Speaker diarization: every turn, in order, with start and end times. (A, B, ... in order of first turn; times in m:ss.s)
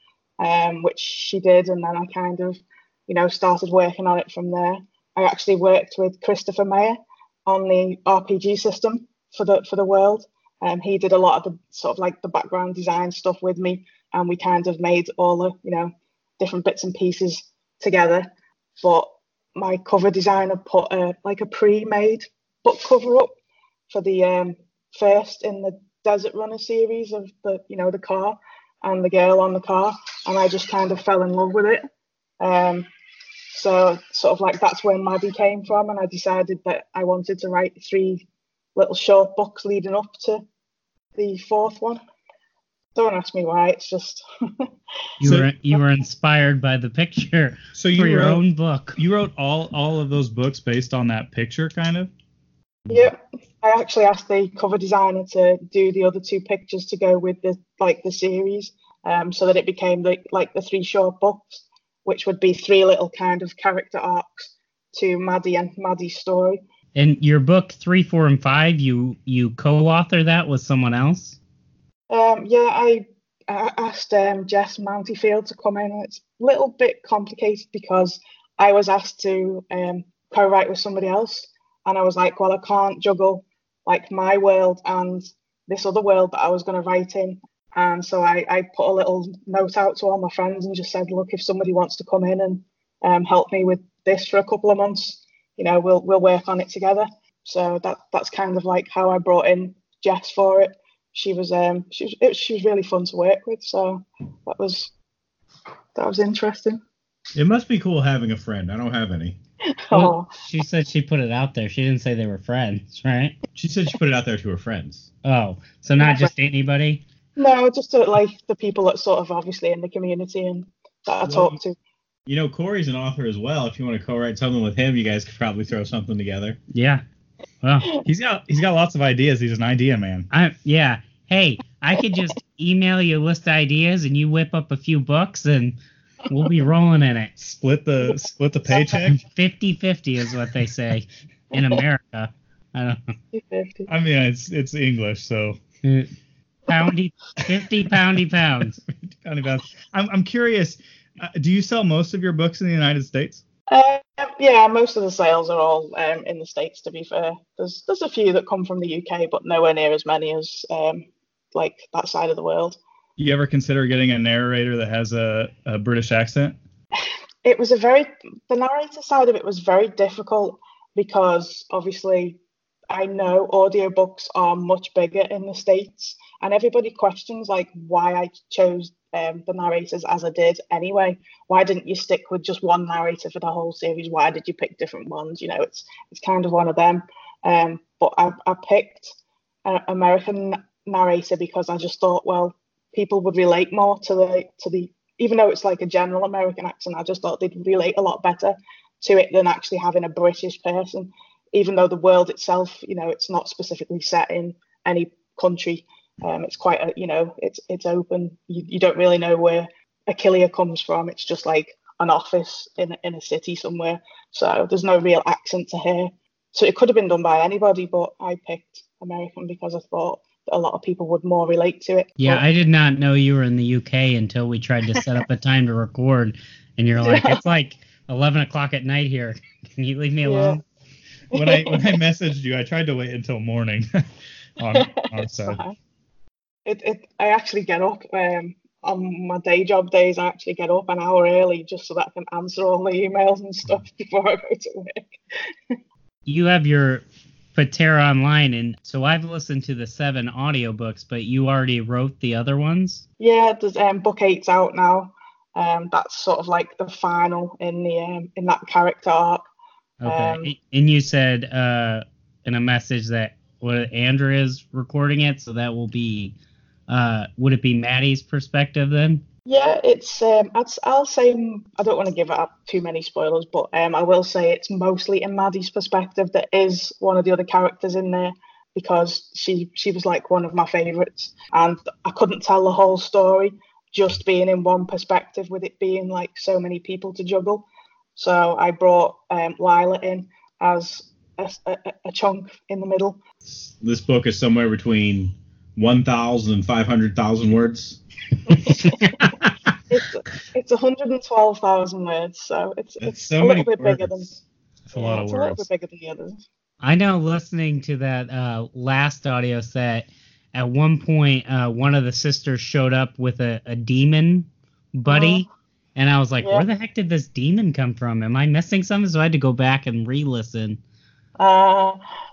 0:00.4-0:23.3 A
0:23.9-0:31.8 A
0:32.4-0:32.9 A
0:33.5-0:40.4 A
0:41.2-0:42.0 A
0:42.9-0:44.7 A
0:45.2-0:49.0 B
0:45.2-0:45.5 C
0:47.7-0:48.4 C
0:49.0-0:52.1 C
0:52.9-1:06.6 A
1:06.9-1:11.4 B
1:12.1-1:44.9 A
1:45.9-1:46.8 A
1:47.4-1:49.4 D
1:49.9-1:50.3 A
1:49.9-1:53.4 B
1:53.6-1:55.1 D
1:55.2-1:57.0 B
1:56.0-1:56.3 A
1:57.4-2:01.8 A
2:01.3-2:01.5 D
2:02.3-2:06.6 D
2:06.7-2:07.0 B
2:07.6-2:07.9 B
2:08.0-2:10.3 C
2:10.3-2:15.8 B
2:16.3-2:17.4 B
2:17.4-2:19.2 C
2:19.1-2:23.1 B
2:23.3-2:23.9 A
2:23.9-2:25.6 C
2:25.8-2:26.1 B
2:26.7-2:28.8 B
2:29.0-2:33.4 C
2:33.7-2:42.8 A
2:43.2-2:46.6 C
2:47.4-2:52.4 A
2:52.9-3:42.4 A
3:42.2-3:50.6 B
3:47.0-3:47.4 A
3:50.2-3:50.6 A
3:51.3-3:53.9 C
3:51.3-3:52.0 A
3:54.6-3:55.6 C
3:54.7-3:55.8 A
3:56.6-4:05.2 A
4:06.2-4:13.0 B
4:13.2-4:19.5 A
4:20.0-4:26.3 B
4:20.1-4:20.5 A
4:26.9-4:29.2 B
4:29.4-4:53.2 A
4:53.4-4:58.0 D
4:58.5-4:58.9 A
4:58.7-4:59.3 B
4:59.9-5:04.4 A
5:03.0-5:04.3 D
5:04.9-5:05.7 C
5:05.0-5:06.4 A
5:06.8-5:20.8 B
5:15.1-5:15.5 A
5:16.4-5:16.6 A
5:21.4-5:22.0 A